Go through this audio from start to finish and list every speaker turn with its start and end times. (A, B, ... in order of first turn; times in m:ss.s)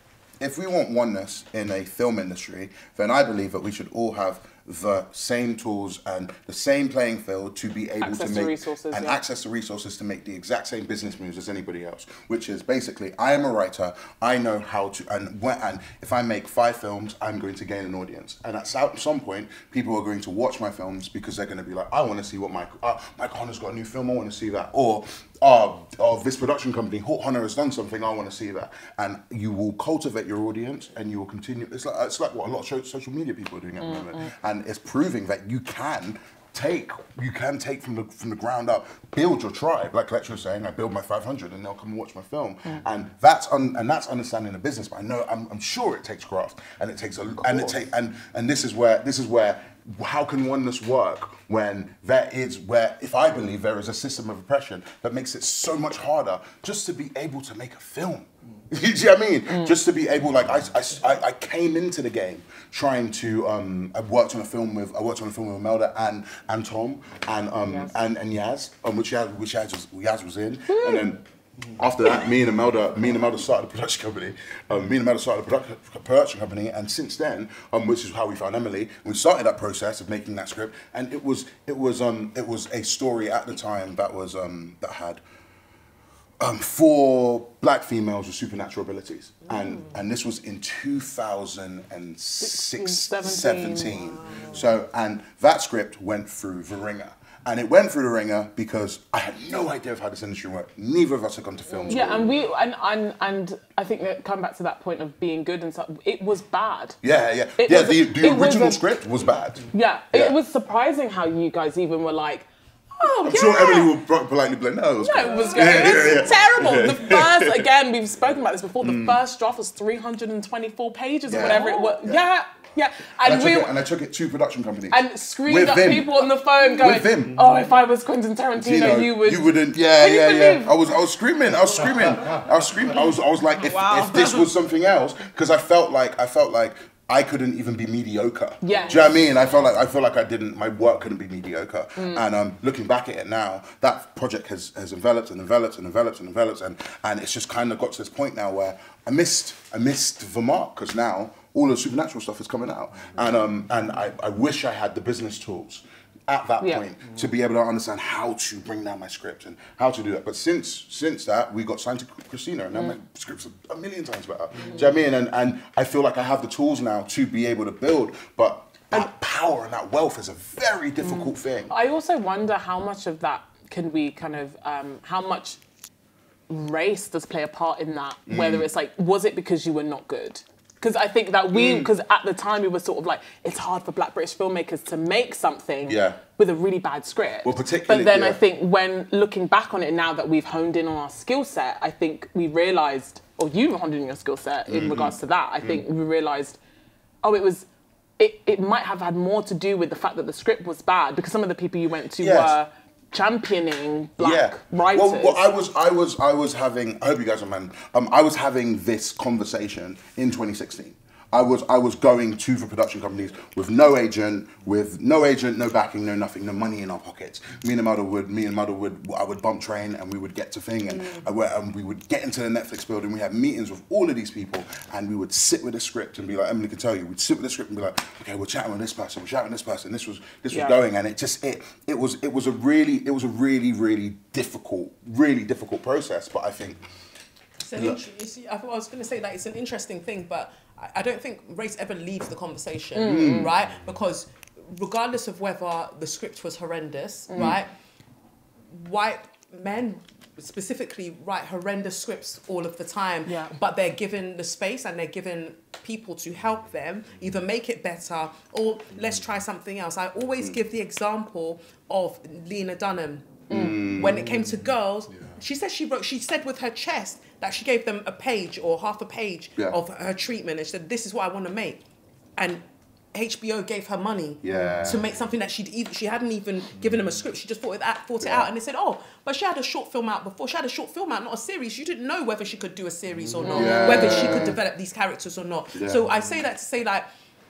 0:00.4-1:11.2 A
0:08.0-0:09.2 B
0:33.8-0:34.3 B
0:59.5-0:59.8 B
1:07.7-1:07.9 B
1:10.7-1:11.1 B
1:11.7-1:25.2 A
1:26.4-1:42.4 A
1:29.4-1:29.9 C
1:32.4-1:34.0 B
1:34.0-1:34.6 C
1:41.7-1:42.0 C
1:41.9-1:47.0 B
1:47.0-1:50.4 A
1:47.6-1:48.8 B
1:49.7-1:53.9 B
1:53.2-1:57.7 A
1:55.0-2:03.8 B
1:58.8-1:59.2 A
2:01.3-2:02.2 A
2:03.2-2:07.6 A
2:04.9-2:10.7 B
2:08.5-2:51.7 A
2:13.6-2:14.4 B
2:18.6-2:19.2 B
2:22.0-2:22.2 B
2:51.0-2:55.6 B
2:56.5-3:16.6 B
2:58.3-2:58.7 A
3:01.5-3:01.9 A
3:05.8-3:06.2 A
3:07.4-3:08.4 A
3:14.7-3:15.8 A
3:17.2-3:17.7 B
3:18.2-3:25.4 B
3:22.2-3:22.6 A
3:24.2-3:56.8 A
3:40.9-3:41.2 C
3:50.5-3:50.8 B
3:57.6-4:07.7 C
3:57.7-3:58.0 A
4:02.9-4:03.5 B
4:03.0-4:03.5 A
4:07.3-4:07.6 B
4:08.7-4:31.8 C
4:13.2-4:13.5 B
4:23.5-4:23.8 B
4:23.5-4:24.4 A
4:32.4-4:32.6 C
4:33.1-4:47.0 C
4:34.4-4:35.1 A
4:38.2-4:38.5 A
4:43.4-4:44.5 B
4:43.4-4:44.6 A
4:45.7-4:46.0 A